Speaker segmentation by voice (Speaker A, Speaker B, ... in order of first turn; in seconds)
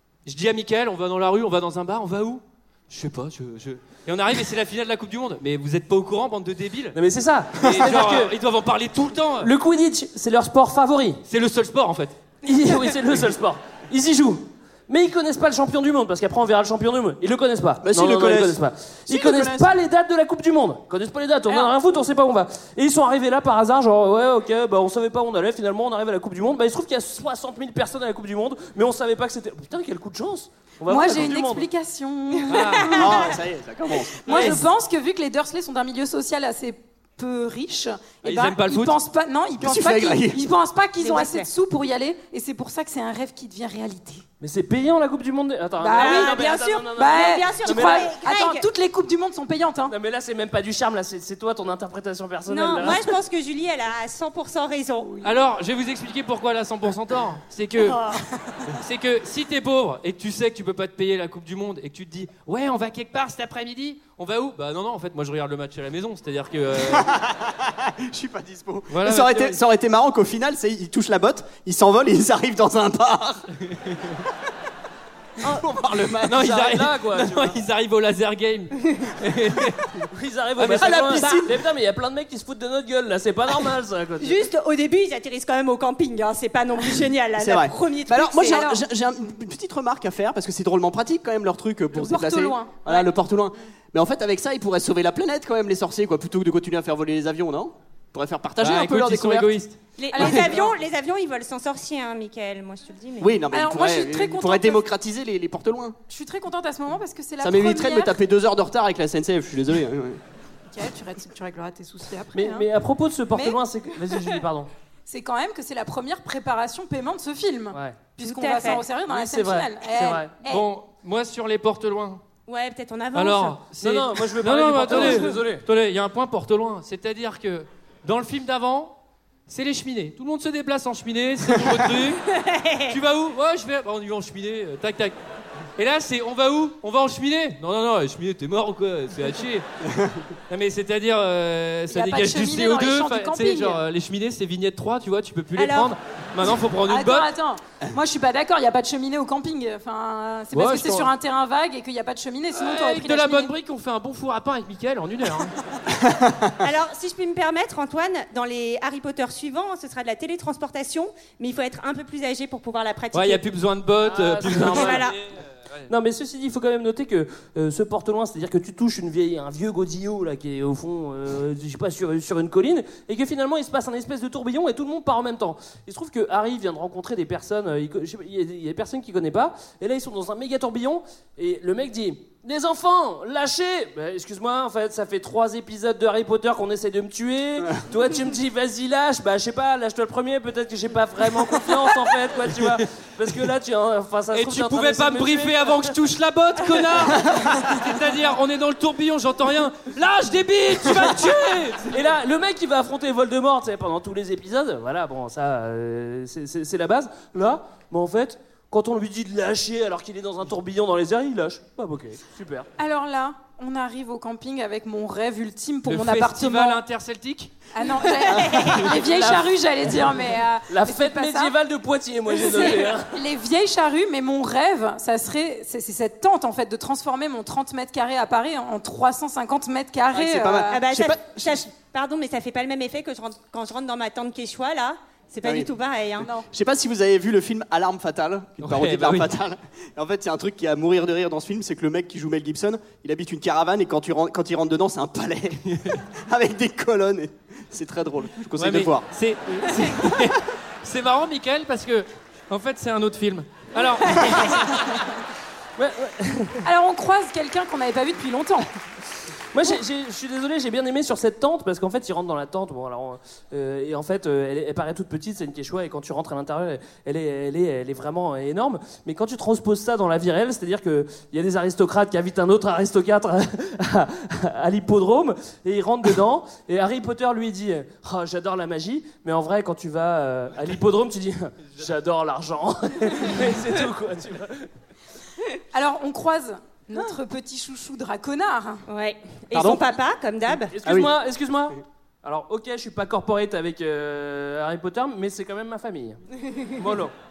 Speaker A: 0.2-7.0, 7.6-9.5, 11.2-12.1, 32.5-33.4, 38.2-39.0, 55.2-58.0, 58.8-67.2, 68.9-69.6, 73.7-74.2, 76.2-79.9, 80.6-81.2, 98.6-100.4, 120.4-122.2, 123.1-128.9, 129.5-132.2, 132.9-135.2, 135.8-139.7, 140.5-147.3, 150.5-151.1, 152.5-155.5, 163.1-165.9, 194.3-202.0, 215.9-217.5, 238.6-239.3, 245.7-246.0, 248.6-254.7
Speaker B: 6.9-8.3, 9.4-11.2, 12.4-31.7, 44.4-48.1, 49.9-53.1, 76.5-77.6, 80.1-84.4, 112.3-114.7, 117.7-118.1, 119.0-120.3, 123.8-125.6, 164.0-165.3, 165.9-195.9, 201.3-212.7, 219.0-220.1, 220.7-223.1, 255.8-256.6, 259.5-284.7, 290.7-296.2, 296.8-297.1
Speaker C: 17.8-19.7, 32.9-34.6, 39.6-40.4, 66.9-73.4, 75.5-76.7, 80.7-81.5, 87.4-99.5, 103.2-106.0, 107.4-110.2, 139.9-140.2, 156.0-156.3, 230.1-231.6, 235.4-235.7, 236.4-245.6, 246.2-249.1, 289.5-289.9, 290.8-291.1
Speaker D: 30.9-33.0, 34.2-44.2, 45.8-46.4, 47.0-49.9, 88.5-88.8, 91.9-92.7, 100.1-100.7, 103.5-104.8, 106.1-108.2, 110.7-112.7, 115.1-120.7, 141.9-143.8, 146.9-153.5, 212.8-216.8, 217.7-221.5, 222.4-230.8, 236.2-236.5, 256.6-258.7, 285.7-288.8
Speaker E: 41.0-41.5, 45.9-48.6, 52.5-55.2, 57.8-58.2, 84.2-88.6, 92.8-93.1, 100.0-103.3, 118.2-118.9, 122.5-123.6, 132.3-132.9, 145.6-145.9, 156.6-163.4, 164.5-165.1, 218.2-218.9, 230.7-236.3, 288.9-290.7